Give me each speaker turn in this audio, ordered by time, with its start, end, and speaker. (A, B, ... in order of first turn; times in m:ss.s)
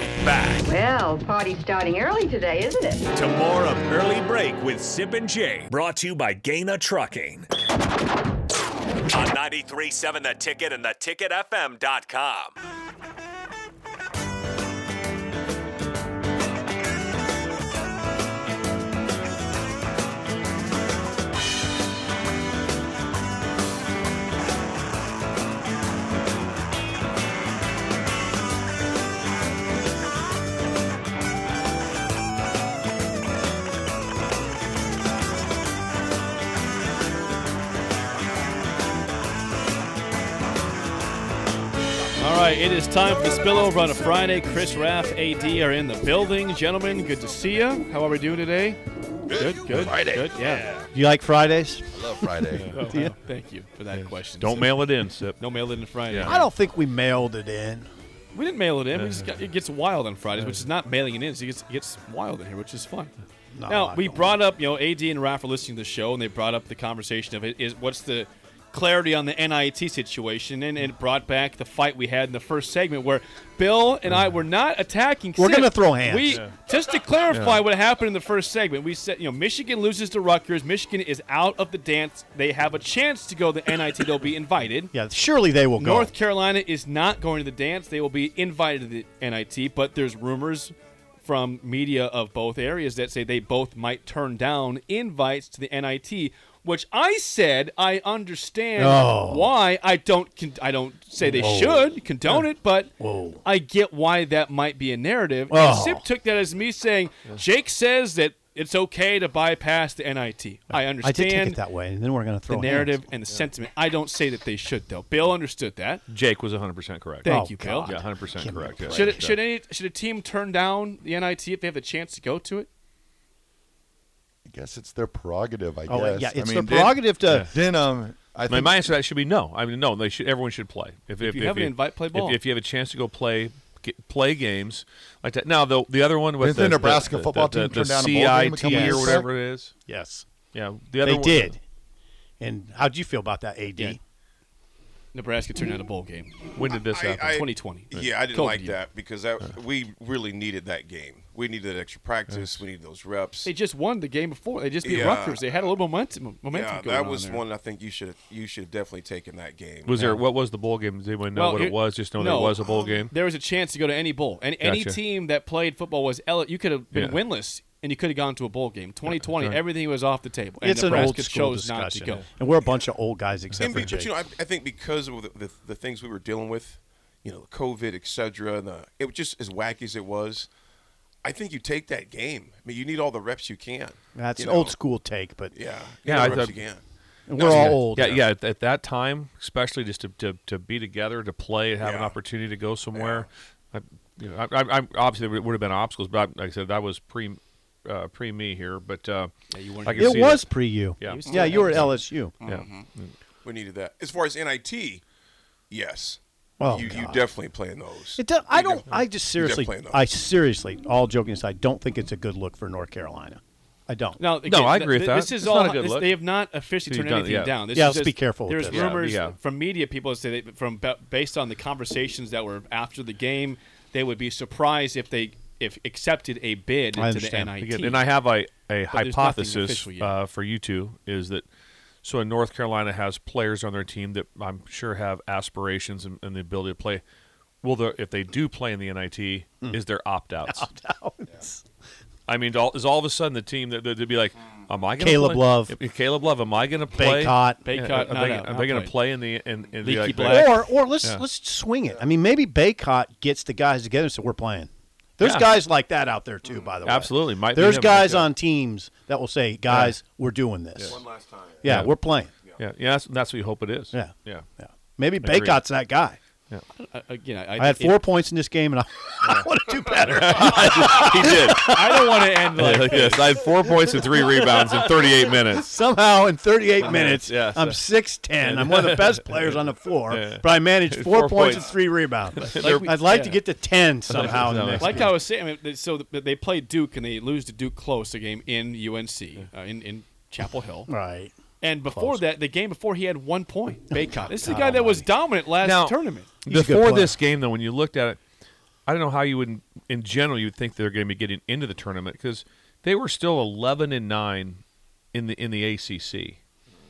0:00.2-0:00.7 A
0:00.6-0:03.1 B
0:03.1-0:07.5 A
0:09.1-0:12.5 A
0:42.2-0:50.7 C
0:49.7-0:50.2 D
0:50.9-0:53.1 E
0:52.2-0:52.6 D
0:52.5-0:52.8 F
0:52.7-0:54.8 C
0:53.9-0:55.4 F
0:55.4-0:56.5 C
0:56.1-0:56.4 F
0:56.2-0:57.9 E
0:58.3-1:03.1 C
0:58.9-0:59.3 F
1:03.5-1:04.4 E
1:03.7-1:24.9 C
1:15.4-1:16.4 E
1:16.3-1:16.5 F
1:17.3-1:17.6 F
1:24.9-1:26.1 E
1:25.8-1:51.6 C
1:38.8-1:39.5 E
1:41.2-1:42.5 E
1:43.0-1:43.4 E
1:45.5-1:46.0 E
1:51.0-1:53.0 E
1:52.5-1:56.0 C
1:56.1-1:59.4 F
1:57.2-1:58.0 C
1:57.2-1:59.2 E
1:58.9-2:02.7 C
2:04.5-2:08.8 D
2:05.9-2:07.5 E
2:07.3-2:07.5 F
2:08.4-2:19.7 F
2:11.2-2:12.4 C
2:16.4-2:19.2 D
2:18.6-2:19.2 E
2:19.9-2:20.2 E
2:20.5-2:21.6 F
2:21.0-2:21.6 E
2:22.4-2:24.0 E
2:25.1-2:26.4 C
2:26.5-2:28.1 F
2:26.7-2:33.5 G
2:27.3-2:28.8 C
2:32.3-2:32.6 F
2:33.4-2:37.4 C
2:34.8-2:35.6 G
2:36.5-2:40.0 G
2:39.8-2:43.1 F
2:39.9-2:40.2 C
2:41.3-2:52.2 C
2:44.6-2:45.0 F
2:49.1-2:49.6 F
2:50.6-2:54.1 E
2:53.5-2:53.9 F
2:53.6-3:00.5 G
3:01.2-3:04.7 G
3:04.2-3:05.5 E
3:05.5-3:06.8 G
3:06.0-3:06.6 F
3:07.3-3:08.2 E
3:07.3-3:07.8 G
3:07.4-3:19.3 F
3:11.8-3:12.2 G
3:12.9-3:13.3 G
3:19.5-3:20.4 C
3:19.8-3:23.1 F
3:20.0-3:22.3 E
3:21.0-3:21.9 C
3:21.3-3:21.6 G
3:22.4-3:22.8 G
3:23.4-3:25.0 G
3:25.7-3:30.0 G
3:26.6-3:27.3 E
3:28.2-3:34.2 E
3:34.2-3:48.0 C
3:34.4-3:36.2 F
3:36.8-3:37.5 F
3:37.7-3:39.0 E
3:38.7-3:39.4 F
3:47.0-3:47.5 E
3:47.6-3:51.4 F
3:48.9-3:50.1 C
3:52.0-3:57.0 F
3:57.6-4:00.7 F
4:00.4-4:01.6 E
4:02.3-4:11.2 F
4:05.0-4:05.8 E
4:07.0-4:07.6 E
4:07.6-4:09.0 C
4:09.8-4:10.7 C
4:10.2-4:21.0 E
4:15.2-4:15.5 F
4:16.8-4:18.3 F
4:19.7-4:19.9 F
4:20.9-4:21.6 G
4:21.6-4:22.3 E
4:21.6-4:22.0 F
4:22.6-4:24.4 F
4:23.9-4:26.2 E
4:25.2-4:25.6 F
4:26.8-4:28.0 C
4:27.6-4:45.2 E
4:29.2-4:35.8 F
4:31.0-4:33.4 C
4:36.8-4:37.8 F
4:38.4-4:41.8 F
4:42.3-4:42.9 F
4:42.6-4:43.4 C
4:44.1-4:45.2 F
4:44.2-4:50.9 C
4:50.9-4:51.3 E
4:51.6-4:56.3 C
4:51.9-4:52.2 E
4:53.9-4:55.0 E
4:55.6-4:58.2 F
4:56.4-4:57.2 E
4:58.8-5:04.6 F
5:05.1-5:06.4 F